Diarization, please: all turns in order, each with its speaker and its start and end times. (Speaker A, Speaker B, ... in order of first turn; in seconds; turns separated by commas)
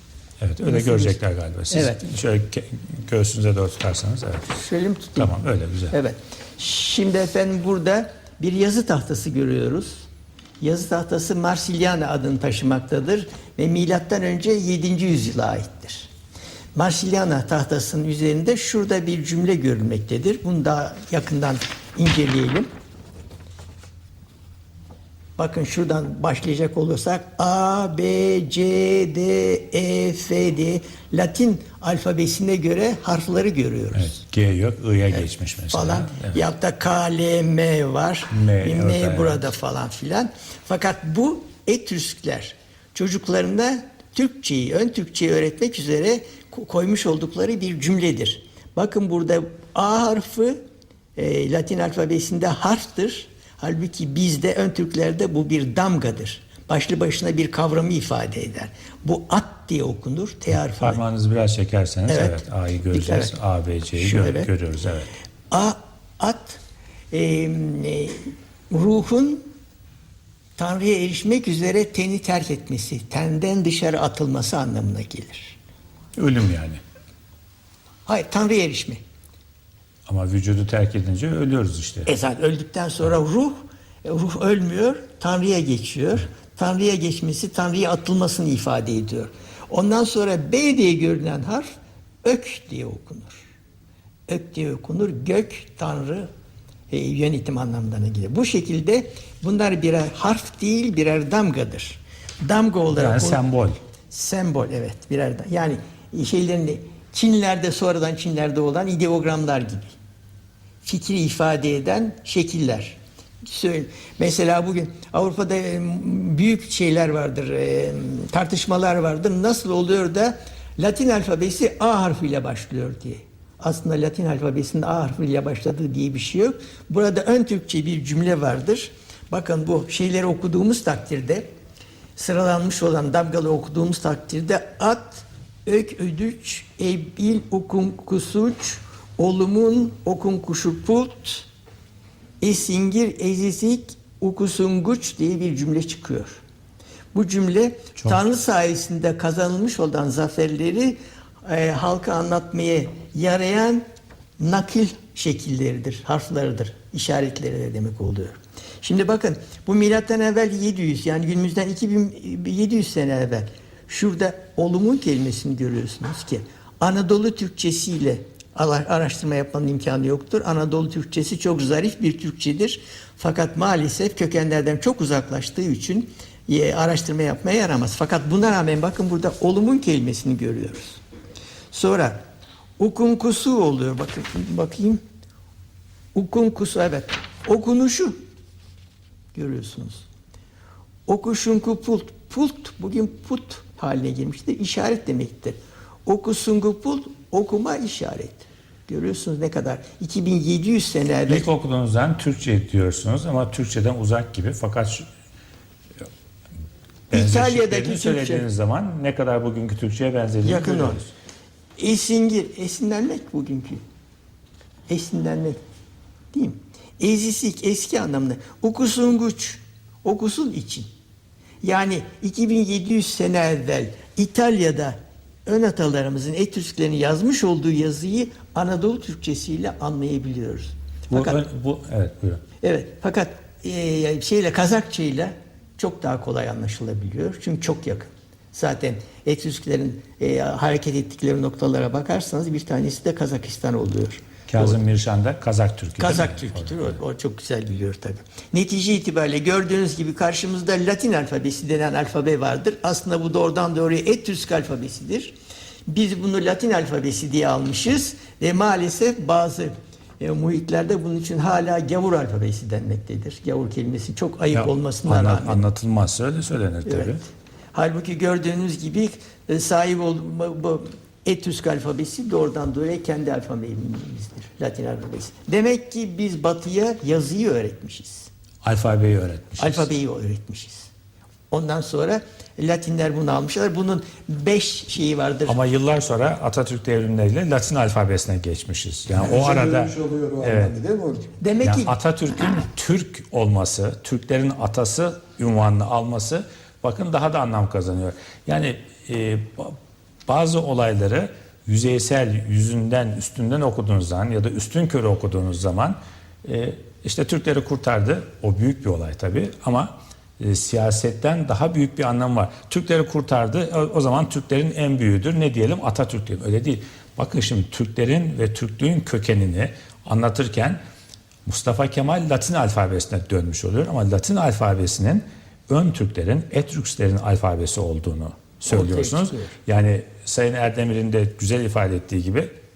Speaker A: 0.4-4.5, Speaker B: 0.6-1.2, Speaker B: 1.7-2.0, Speaker B: 4.5-5.4, Speaker A: 5.2-6.0, Speaker B: 5.9-10.0, Speaker B: 10.6-16.1, Speaker B: 16.7-22.7, Speaker B: 25.4-34.1, Speaker A: 33.9-36.4, Speaker B: 35.1-50.5, Speaker A: 38.3-39.4, Speaker B: 51.1-61.0, Speaker A: 60.7-65.1, Speaker B: 62.1-63.3, Speaker B: 63.9-64.5, Speaker B: 65.5-66.6, Speaker B: 67.1-69.4, Speaker B: 70.6-75.5, Speaker A: 76.2-76.8, Speaker B: 78.0-79.0, Speaker A: 80.1-82.1, Speaker B: 82.0-93.4, Speaker B: 94.3-96.3, Speaker B: 96.9-103.4, Speaker A: 102.9-103.8, Speaker B: 104.1-109.9, Speaker B: 110.8-131.5, Speaker B: 132.2-141.5, Speaker B: 142.4-146.4, Speaker B: 147.1-153.8, Speaker B: 154.4-181.0, Speaker B: 181.7-182.2, Speaker B: 182.8-185.0, Speaker B: 186.1-188.2, Speaker B: 189.3-190.0, Speaker B: 191.1-201.5, Speaker A: 201.3-205.1, Speaker A: 207.1-211.1, Speaker B: 207.1-208.5, Speaker B: 210.4-211.0, Speaker B: 211.8-213.8, Speaker B: 214.9-215.6, Speaker B: 216.3-220.8, Speaker B: 221.6-224.9, Speaker B: 225.4-231.4, Speaker A: 231.1-232.4, Speaker B: 232.6-244.8, Speaker A: 244.5-247.0, Speaker B: 246.0-255.3, Speaker B: 255.9-265.6, Speaker A: 264.5-267.2, Speaker B: 266.9-267.2, Speaker B: 267.7-278.3, Speaker A: 278.6-279.9, Speaker B: 279.6-280.9, Speaker B: 281.5-285.6, Speaker A: 285.4-290.7, Speaker C: 289.1-291.3, Speaker B: 291.4-292.0, Speaker A: 291.6-299.8, Speaker A: 300.3-320.8, Speaker A: 321.4-332.5, Speaker B: 328.7-329.6